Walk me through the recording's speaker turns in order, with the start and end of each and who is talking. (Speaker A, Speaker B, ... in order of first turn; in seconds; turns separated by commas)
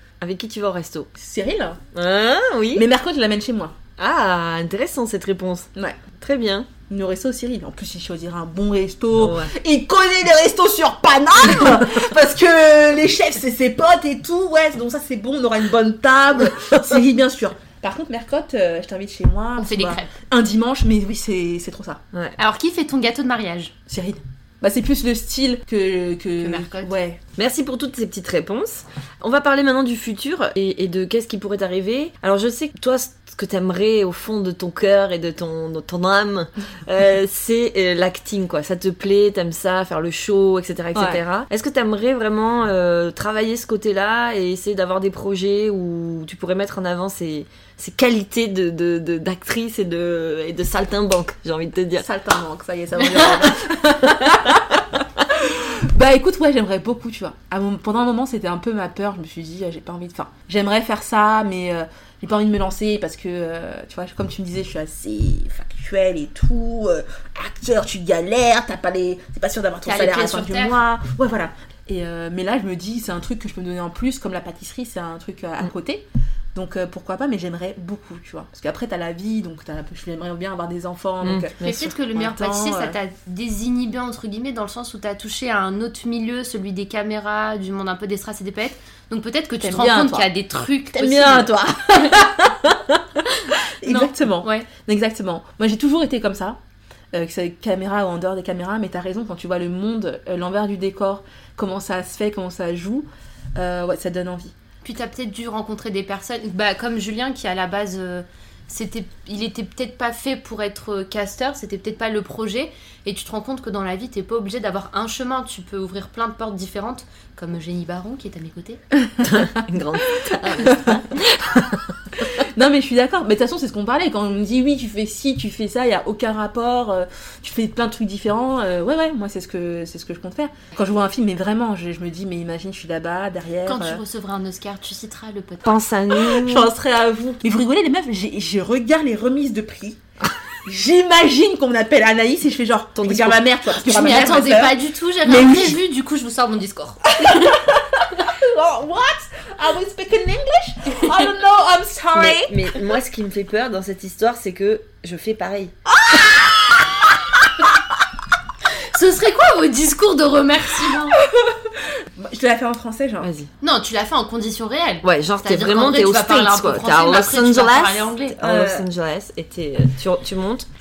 Speaker A: 0.2-1.1, Speaker B: 1.1-1.8, Speaker A: 1.9-2.9, Speaker B: 2.7-3.8, Speaker A: 4.0-5.7, Speaker A: 6.2-6.7, Speaker B: 6.9-22.0, Speaker A: 9.2-9.5, Speaker C: 19.6-20.1, Speaker C: 22.4-23.7, Speaker B: 23.9-27.2, Speaker C: 26.4-26.9, Speaker A: 27.4-52.1, Speaker B: 40.9-41.2, Speaker B: 52.0-83.0, Speaker C: 53.1-53.4, Speaker C: 69.8-70.8, Speaker A: 81.2-81.9, Speaker C: 81.6-91.5, Speaker B: 89.6-90.3, Speaker B: 90.9-96.6, Speaker C: 93.8-94.7, Speaker B: 97.1-104.5, Speaker C: 104.8-118.8, Speaker B: 119.2-119.5, Speaker A: 119.2-121.8, Speaker B: 120.2-121.0, Speaker C: 120.3-121.0, Speaker B: 122.3-134.0, Speaker C: 133.7-135.8, Speaker A: 135.6-136.7, Speaker B: 136.2-140.0, Speaker B: 140.7-145.8, Speaker A: 143.0-143.4, Speaker C: 143.8-147.5, Speaker B: 147.2-152.7, Speaker A: 152.1-155.7, Speaker B: 155.9-156.9, Speaker C: 158.9-161.2, Speaker B: 161.2-163.3, Speaker A: 163.2-163.5, Speaker C: 163.6-168.4, Speaker A: 165.0-170.7, Speaker B: 168.4-168.9